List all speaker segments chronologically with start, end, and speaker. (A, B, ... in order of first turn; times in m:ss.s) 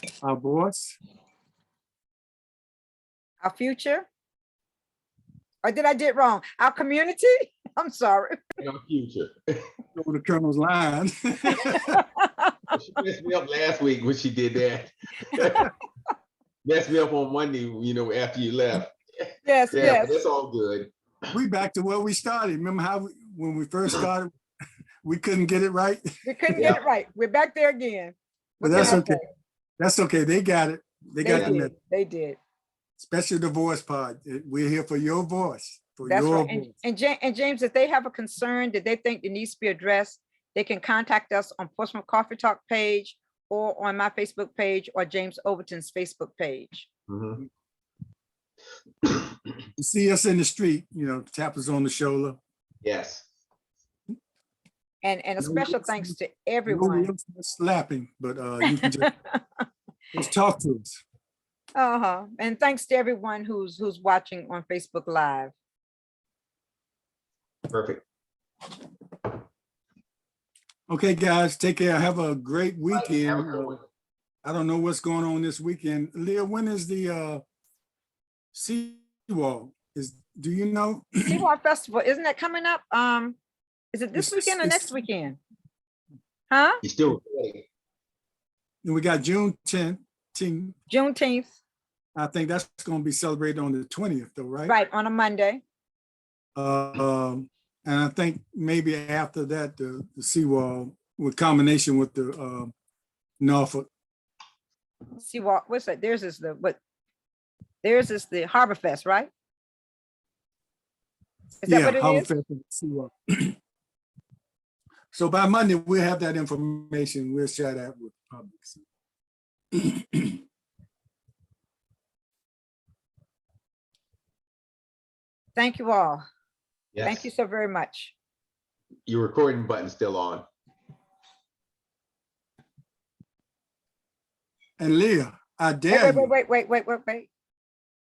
0:00.2-0:01.0 A
0:03.4-0:04.1 B
0:05.6-0:08.4 B
0:08.6-0:09.7 C
0:10.0-0:12.0 A
0:11.9-0:12.8 B
0:12.7-0:15.7 C
0:16.6-0:20.9 C
0:19.4-0:20.2 B
0:21.3-0:24.4 A
0:25.0-0:26.7 A
0:26.2-0:29.3 B
0:28.6-0:29.2 A
0:28.7-0:29.0 C
0:29.8-0:31.7 A
0:31.2-0:32.4 B
0:33.0-0:36.7 A
0:36.1-0:46.9 B
0:47.1-0:47.4 C
0:49.8-0:52.4 A
0:52.8-0:53.3 C
0:55.0-0:57.1 B
0:55.4-0:56.2 A
0:56.7-0:59.1 A
0:58.7-0:59.4 B
1:00.1-1:01.0 A
1:01.8-1:05.5 B
1:07.7-1:08.0 C
1:10.9-1:13.8 A
1:12.9-1:13.8 C
1:14.4-1:17.4 A
1:18.5-1:21.4 A
1:21.2-1:23.4 B
1:23.9-1:25.4 B
1:24.1-1:24.9 A
1:26.5-1:26.8 B
1:26.8-1:27.7 C
1:28.8-1:30.8 A
1:30.9-1:31.5 B
1:32.2-1:34.8 A
1:34.7-1:35.6 B
1:36.6-1:42.7 A
1:43.4-1:43.9 A
1:45.2-1:46.8 B
1:47.8-1:49.3 B
1:51.6-1:52.3 B
1:51.7-1:53.6 A
1:55.1-1:58.9 A
1:59.8-2:00.4 A
2:05.6-2:06.2 B
2:06.9-2:07.3 C
2:07.0-2:08.1 B
2:09.1-2:10.4 C
2:14.8-2:16.3 A
2:15.9-2:17.3 B